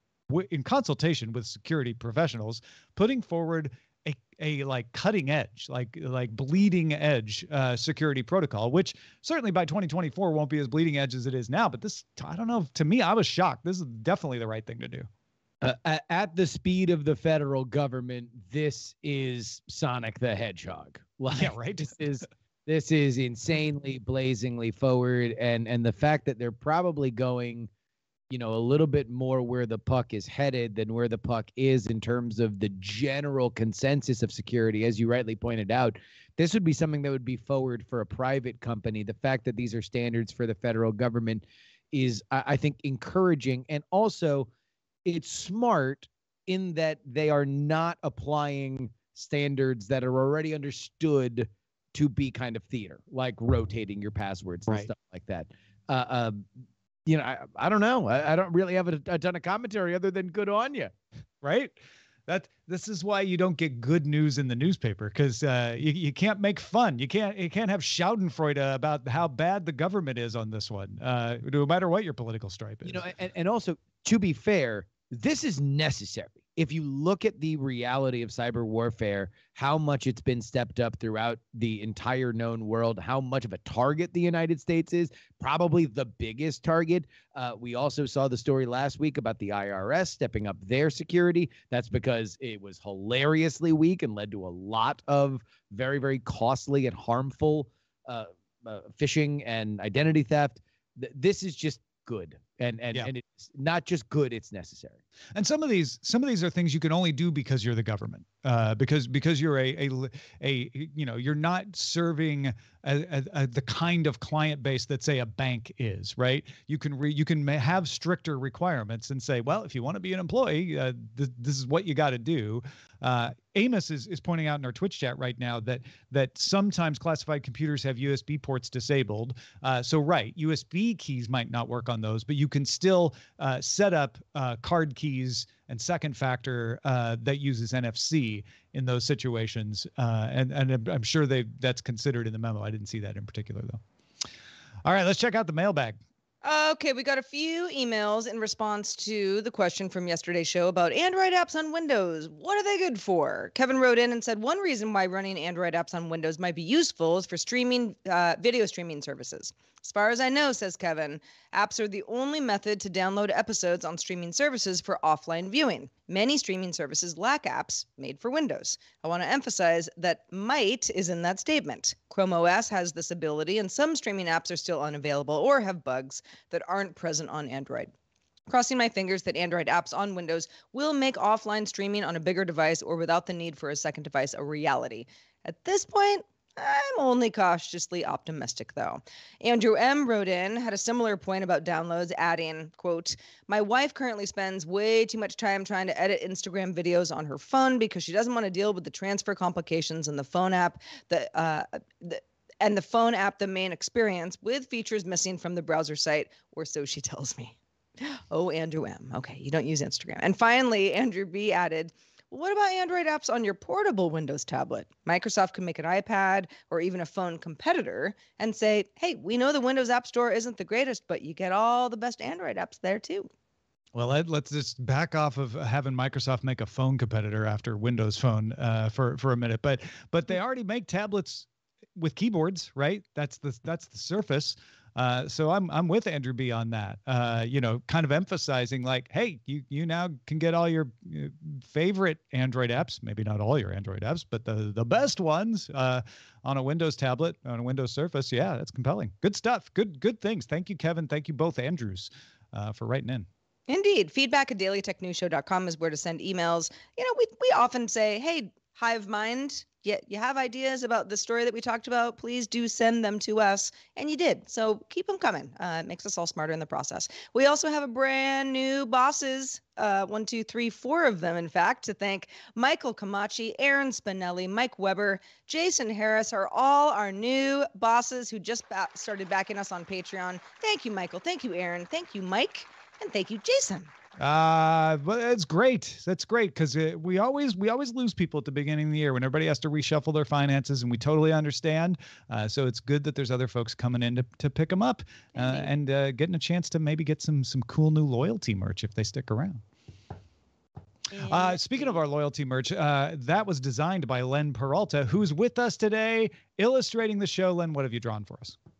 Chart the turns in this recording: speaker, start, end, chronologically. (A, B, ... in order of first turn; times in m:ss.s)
0:00.3-0:15.1 A
0:15.6-0:27.7 B
0:21.3-0:22.0 A
0:28.3-0:44.5 B
0:45.0-0:56.5 B
0:57.0-1:00.9 B
1:01.4-1:13.1 A
1:12.8-1:45.0 B
1:45.3-2:23.8 A
2:24.8-2:26.0 A
2:26.4-2:57.9 C
2:58.5-3:43.3 C
3:43.9-4:13.3 A
4:13.7-4:43.9 C
4:44.2-4:59.6 A
4:55.4-4:55.7 C
5:01.1-5:01.8 C
5:01.2-5:08.6 A